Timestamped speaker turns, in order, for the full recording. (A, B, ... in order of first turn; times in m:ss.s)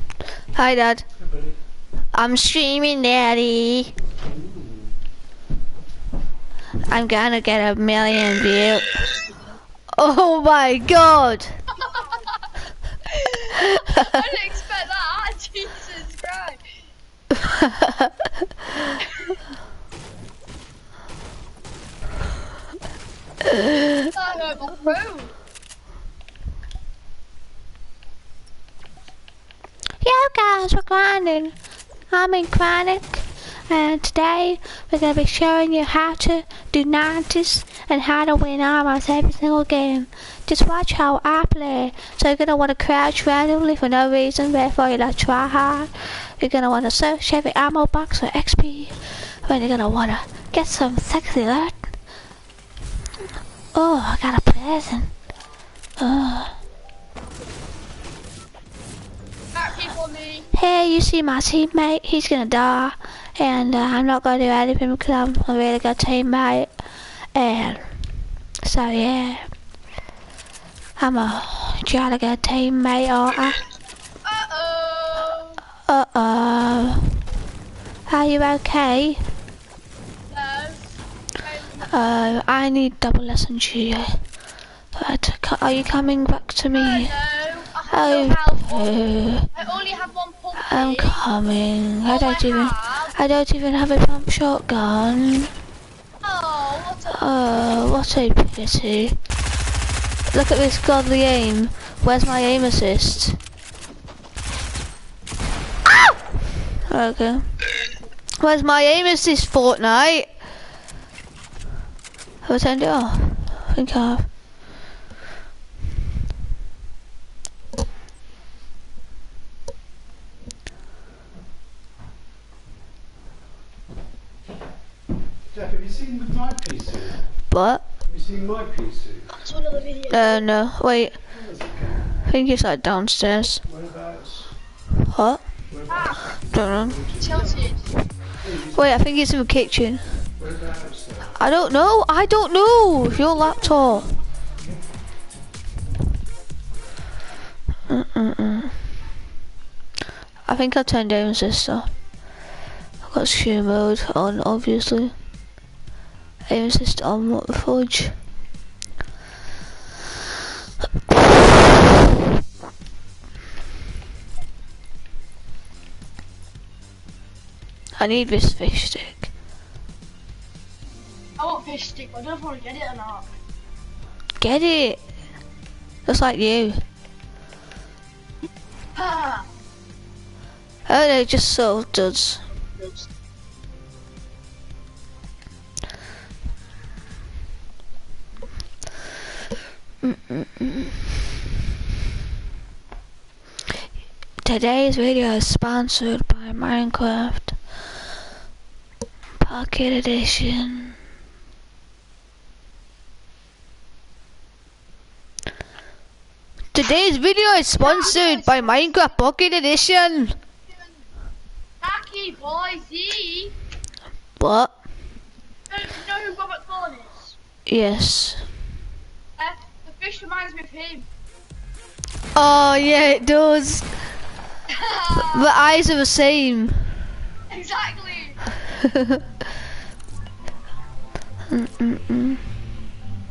0:00.5-0:01.0 A
0:01.2-0:01.6 B
0:02.1-0:03.9 A
0:04.2-0:05.0 B
0:06.9-0:09.0 A
0:09.9-0:11.5 A
0:11.8-0:12.5 C
0:13.1-0:16.6 C
0:17.6-0:18.1 A
0:18.8-0:19.4 C
0:24.1-0:25.4 C
0:30.0-0:31.5 A
0:32.1-0:51.8 A
0:53.7-0:55.1 A
0:56.0-0:56.5 A
0:59.5-1:00.5 C
1:00.5-1:06.7 A
1:07.3-1:07.9 A
1:08.6-1:09.5 A
1:11.0-1:13.6 A
1:14.2-1:15.6 C
1:15.9-1:17.2 A
1:18.1-1:19.2 A
1:20.3-1:21.9 C
1:21.9-1:24.2 A
1:24.9-1:27.1 A
1:26.7-1:29.0 C
1:27.9-1:29.5 A
1:29.5-1:31.2 C
1:30.6-1:35.5 A
1:32.1-1:33.1 C
1:36.2-1:37.3 C
1:37.1-1:39.2 A
1:40.3-1:43.4 A
1:46.9-1:47.5 A
1:48.4-1:50.3 A
1:52.4-1:54.3 A
2:05.5-2:07.3 B
2:07.5-2:07.8 A
2:08.0-2:09.3 B
2:09.3-2:10.4 C
2:10.1-2:11.2 A
2:11.3-2:12.2 B
2:12.2-2:13.6 A
2:13.6-2:14.6 B
2:15.1-2:15.4 A
2:15.7-2:17.7 B
2:15.9-2:16.4 C
2:16.5-2:17.0 A
2:17.2-2:17.9 C
2:18.4-2:18.9 B
2:18.7-2:20.2 A
2:20.4-2:21.4 B
2:21.3-2:24.1 A
2:27.9-2:28.8 A
2:30.4-2:31.9 A
2:33.0-2:35.1 A
2:36.5-2:38.1 A
2:48.0-2:49.2 A
2:51.4-2:53.3 C
2:54.4-2:55.0 A
2:56.0-2:56.8 A
2:58.9-2:59.5 C
3:00.9-3:02.4 A
3:10.0-3:11.0 A
3:14.4-3:17.6 A
3:19.4-3:21.0 A
3:26.7-3:30.4 A
3:27.8-3:28.8 C
3:31.8-3:33.5 C
3:34.4-3:34.7 A
3:35.7-3:37.3 C
3:37.7-3:38.4 A
3:39.4-3:41.1 C
3:42.3-3:43.9 A
3:44.7-3:45.5 C
3:45.2-3:46.9 A
3:47.5-3:48.4 C
3:48.8-3:49.2 A
3:51.5-3:52.4 A